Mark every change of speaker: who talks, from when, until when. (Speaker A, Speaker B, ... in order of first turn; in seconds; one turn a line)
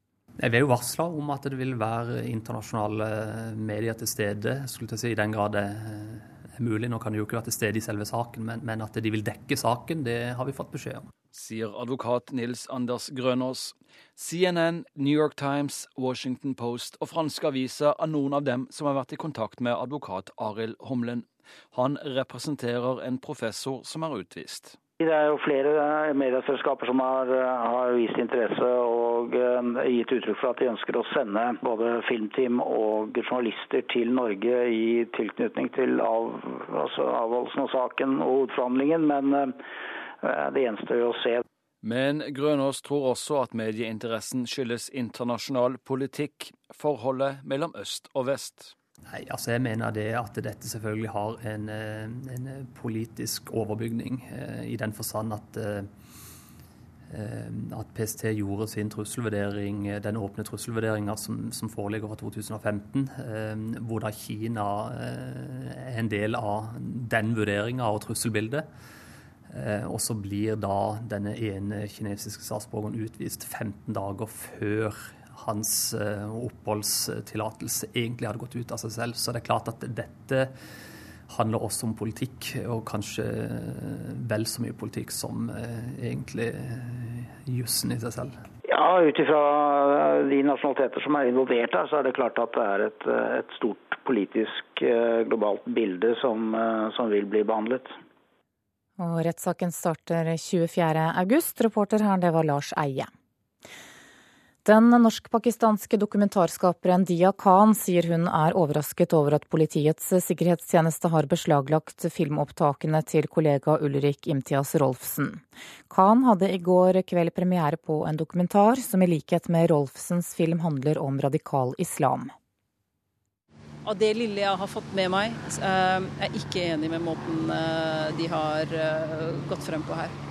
Speaker A: 0.4-11.1
Speaker B: 11.3-24.8
Speaker C: 25.0-39.5
Speaker C: 40.2-41.4
Speaker B: 41.8-48.7
Speaker A: 49.1-55.9
Speaker A: 57.1-68.7
Speaker A: 69.5-80.5
Speaker A: 81.3-88.4
Speaker C: 88.7-97.9
Speaker D: 99.0-103.1
Speaker D: 104.7-122.3
Speaker E: 123.9-130.1